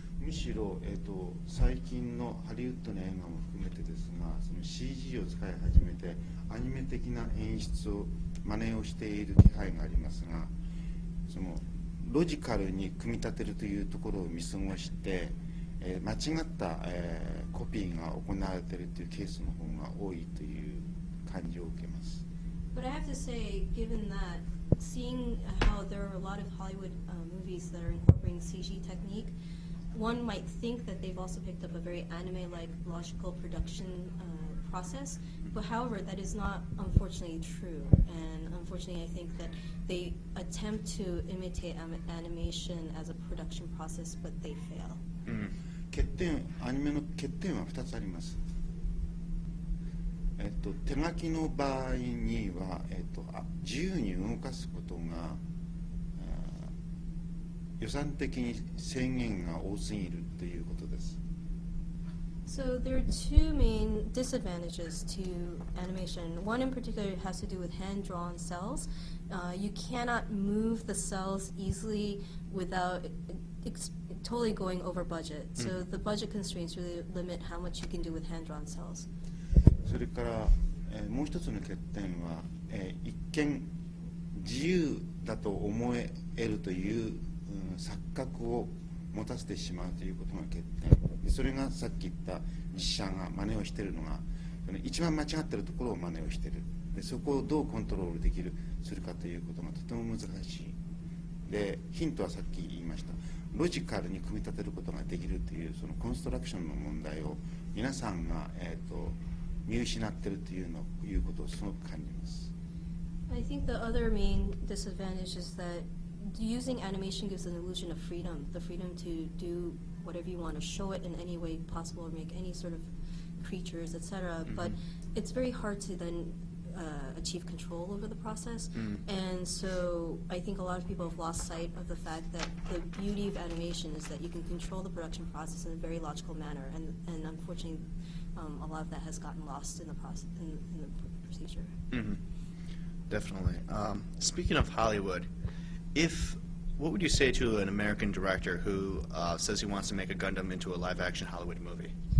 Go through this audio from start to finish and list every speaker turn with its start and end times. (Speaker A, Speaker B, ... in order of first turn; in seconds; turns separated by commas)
Speaker A: 0.2-10.5, Speaker A: 11.3-22.2, Speaker B: 22.7-29.3, Speaker B: 29.9-45.0, Speaker C: 45.2-45.5, Speaker A: 45.9-48.4, Speaker A: 50.4-55.4, Speaker A: 56.2-56.7, Speaker A: 57.8-61.2, Speaker B: 62.5-79.1, Speaker A: 79.8-83.7, Speaker A: 84.3-100.8, Speaker A: 101.5-112.5, Speaker B: 113.3-122.9, Speaker B: 123.4-141.7, Speaker C: 124.5-124.8, Speaker C: 128.7-129.0, Speaker C: 141.9-142.2, Speaker C: 143.1-145.3, Speaker C: 145.9-151.9